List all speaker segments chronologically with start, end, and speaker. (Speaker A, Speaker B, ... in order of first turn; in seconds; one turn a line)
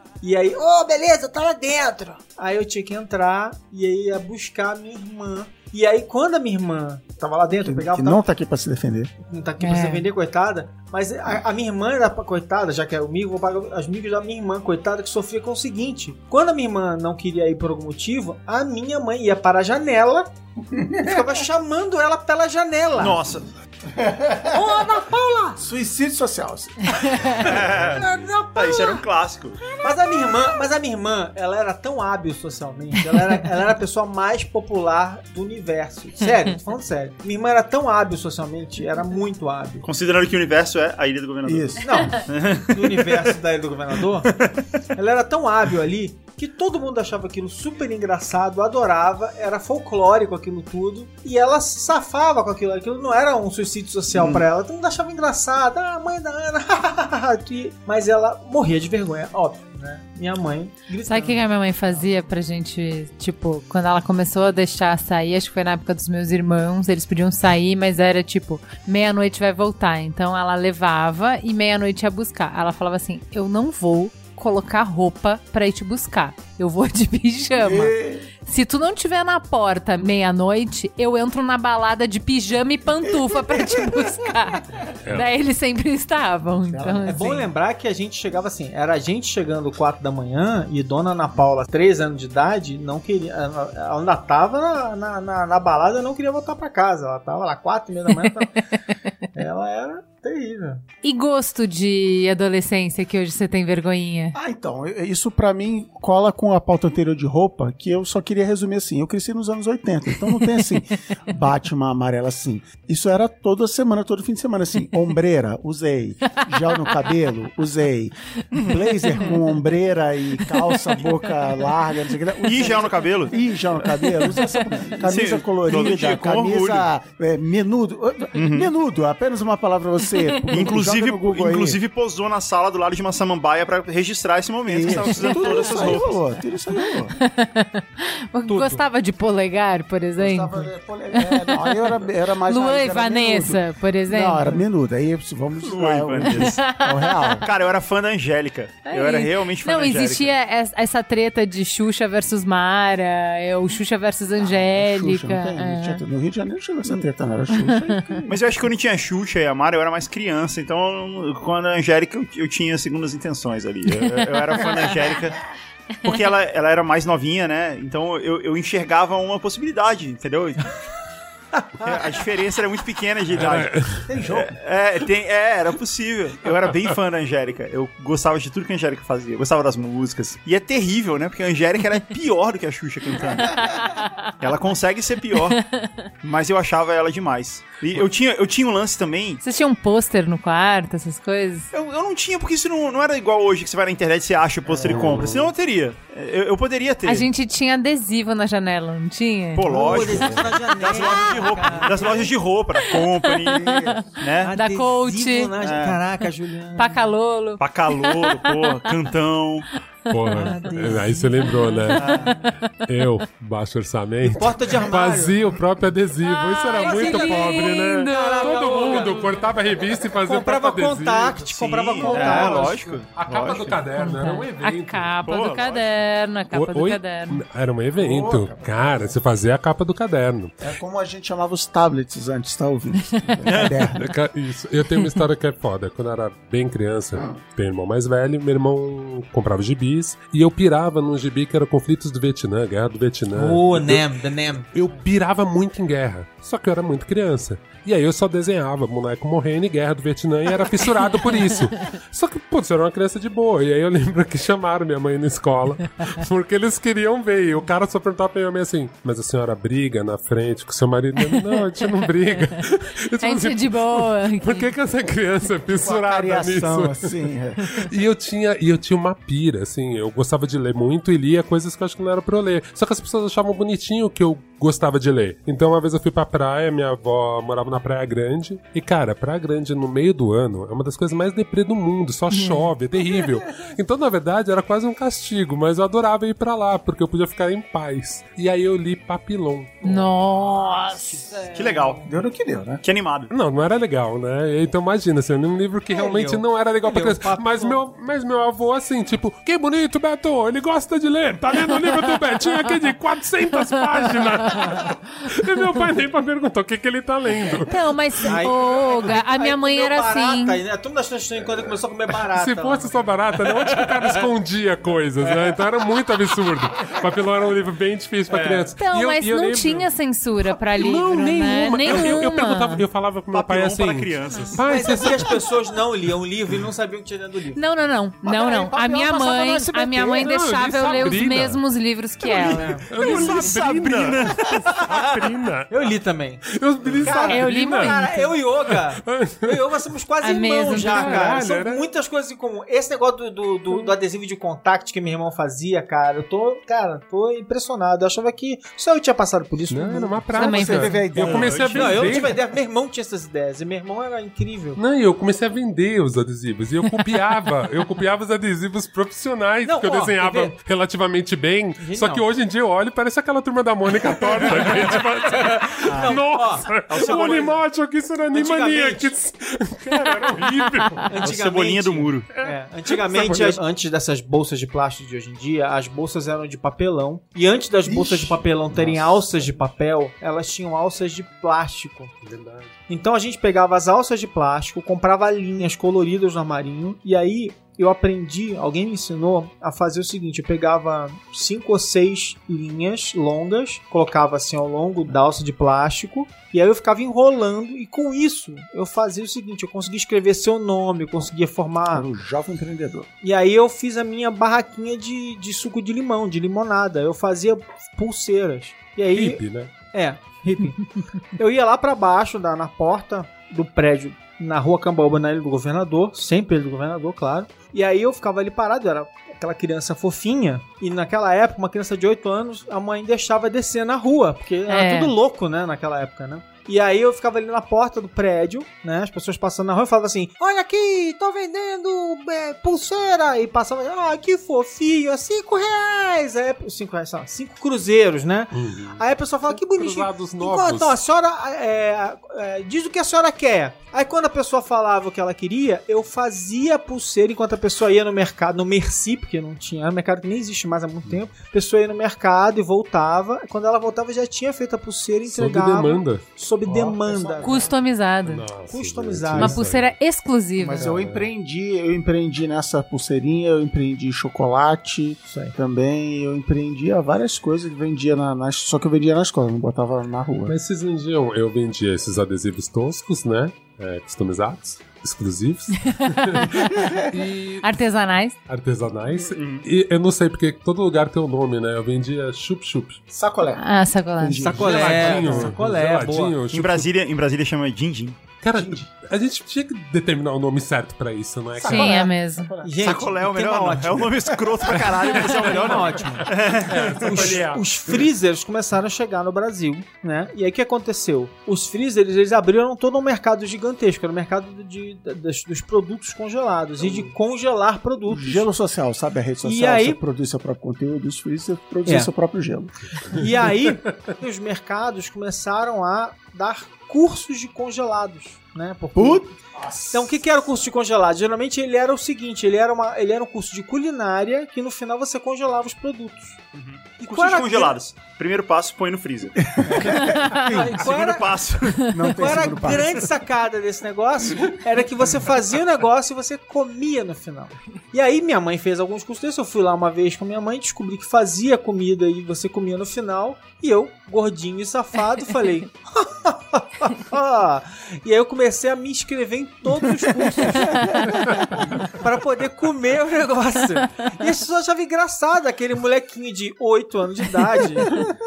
Speaker A: 0.2-8.2
Speaker B: 7.6-9.1
Speaker A: 9.2-20.3
Speaker C: 9.6-10.1
Speaker B: 20.7-21.3
Speaker A: 21.0-23.2
Speaker D: 23.0-23.5
Speaker B: 23.9-24.7
Speaker A: 24.5-25.6
Speaker B: 25.6-27.7
Speaker D: 27.4-29.7
Speaker A: 27.4-29.0
Speaker A: 29.6-39.9
Speaker D: 39.8-43.4
Speaker B: 41.4-41.9
Speaker A: 41.8-44.4
Speaker A: 45.0-62.1
Speaker D: 54.1-54.5
Speaker C: 61.0-87.5
Speaker B: 77.6-78.3
Speaker B: 83.1-84.1
Speaker B: 86.7-87.1
Speaker A: 87.1-98.6
Speaker C: 98.2-98.8
Speaker A: 99.3-100.8
Speaker C: 101.0-104.3
Speaker B: 104.3-131.8
Speaker D: 118.6-118.8
Speaker C: 120.6-121.0
Speaker D: 122.4-123.4
Speaker C: 124.2-124.7
Speaker D: 125.0-126.9
Speaker D: 128.3-128.7
Speaker C: 130.2-130.6
Speaker D: 130.5-136.2
Speaker B: 134.7-137.1
Speaker C: 135.0-136.0
Speaker C: 137.1-141.9
Speaker B: 140.2-147.5
Speaker C: 142.4-144.6
Speaker D: 145.6-146.6
Speaker C: 146.3-147.4
Speaker D: 147.4-150.3
Speaker C: 148.9-156.0
Speaker B: 154.4-158.4
Speaker C: 157.6-158.2
Speaker D: 158.3-165.4
Speaker C: 164.6-164.9
Speaker D: 166.0-170.8
Speaker D: 171.8-183.9
Speaker E: 173.3-174.1
Speaker B: 174.1-174.6
Speaker D: 184.4-185.6
Speaker C: 185.6-185.9
Speaker D: 186.2-189.4
Speaker C: 189.4-191.7
Speaker D: 191.7-197.3
Speaker E: 194.8-195.5
Speaker C: 197.0-200.2
Speaker D: 199.6-204.6
Speaker A: 199.6-202.3
Speaker C: 201.0-201.8
Speaker C: 202.8-205.5
Speaker B: 203.5-204.1
Speaker A: 204.4-207.1
Speaker D: 205.6-206.0
Speaker C: 206.8-209.0
Speaker D: 207.6-209.7
Speaker C: 210.1-212.8
Speaker E: 210.1-221.5
Speaker A: 210.3-212.0
Speaker D: 212.0-212.3
Speaker A: 214.2-215.4
Speaker C: 216.2-219.2
Speaker A: 216.7-219.6
Speaker A: 220.1-223.0
Speaker D: 221.5-223.8
Speaker E: 222.1-225.2
Speaker C: 224.0-227.4
Speaker D: 225.2-225.9
Speaker E: 226.5-230.5
Speaker B: 228.0-229.2
Speaker B: 230.6-234.1
Speaker D: 233.5-233.8
Speaker E: 234.0-244.1
Speaker A: 243.3-244.9
Speaker E: 244.7-290.1
Speaker C: 263.2-264.7
Speaker B: 265.8-267.7
Speaker C: 282.3-282.7
Speaker C: 289.8-291.9
Speaker A: 290.8-291.6
Speaker D: 291.6-292.1
Speaker B: 292.1-292.8
Speaker D: 292.8-293.3
Speaker E: 293.3-307.7
Speaker A: 295.9-297.8
Speaker C: 303.6-304.9
Speaker C: 307.7-310.6
Speaker A: 308.2-314.2
Speaker E: 312.3-319.9
Speaker A: 315.2-315.6
Speaker A: 318.3-318.7
Speaker C: 318.8-322.8
Speaker E: 320.4-325.4
Speaker D: 321.9-322.1
Speaker D: 323.3-324.7
Speaker A: 324.6-327.6
Speaker C: 327.6-332.8
Speaker B: 328.2-330.4
Speaker E: 330.2-331.6
Speaker A: 332.4-333.5
Speaker E: 332.4-338.0
Speaker D: 332.7-335.3
Speaker A: 335.7-354.8
Speaker C: 337.2-338.4
Speaker E: 338.7-339.7
Speaker C: 340.2-341.3
Speaker E: 340.7-341.9
Speaker E: 349.7-352.4
Speaker C: 350.3-351.1
Speaker B: 350.5-352.2
Speaker E: 354.8-371.1
Speaker A: 359.6-360.6
Speaker A: 361.8-362.3
Speaker A: 364.1-367.4
Speaker D: 365.9-366.2
Speaker D: 366.9-367.6
Speaker A: 368.3-369.1
Speaker A: 371.1-382.1
Speaker D: 371.2-372.3
Speaker E: 372.3-373.6
Speaker B: 377.9-379.6
Speaker E: 382.2-382.8
Speaker A: 382.9-402.1
Speaker B: 401.9-403.1
Speaker A: 403.2-457.7
Speaker E: 409.1-409.7
Speaker C: 424.7-425.1
Speaker E: 438.5-441.0
Speaker E: 455.3-456.2
Speaker B: 456.7-457.7
Speaker C: 457.4-458.4
Speaker E: 458.2-459.9
Speaker A: 458.7-459.6
Speaker C: 459.4-460.8
Speaker B: 460.6-470.6
Speaker E: 460.8-461.3
Speaker A: 465.3-465.6
Speaker E: 470.5-477.8
Speaker C: 476.0-476.4
Speaker B: 476.7-477.1
Speaker C: 477.6-478.4
Speaker E: 478.5-483.0
Speaker D: 479.1-479.7
Speaker B: 483.1-483.6
Speaker C: 483.6-484.5
Speaker B: 484.2-485.6
Speaker A: 484.4-486.4
Speaker E: 484.4-486.9
Speaker D: 486.5-488.2
Speaker E: 488.4-492.0
Speaker B: 488.5-488.9
Speaker B: 491.6-493.1
Speaker C: 491.6-492.5
Speaker A: 492.6-494.2
Speaker D: 492.8-497.5
Speaker E: 494.7-497.9
Speaker A: 495.2-508.5
Speaker E: 506.8-507.1
Speaker B: 508.1-512.7
Speaker A: 509.4-510.0
Speaker A: 513.1-519.3
Speaker B: 519.0-520.1
Speaker A: 519.9-526.4
Speaker D: 526.5-529.8
Speaker A: 527.0-527.8
Speaker B: 529.5-530.8
Speaker A: 529.7-558.0
Speaker D: 530.7-532.7
Speaker B: 531.9-533.1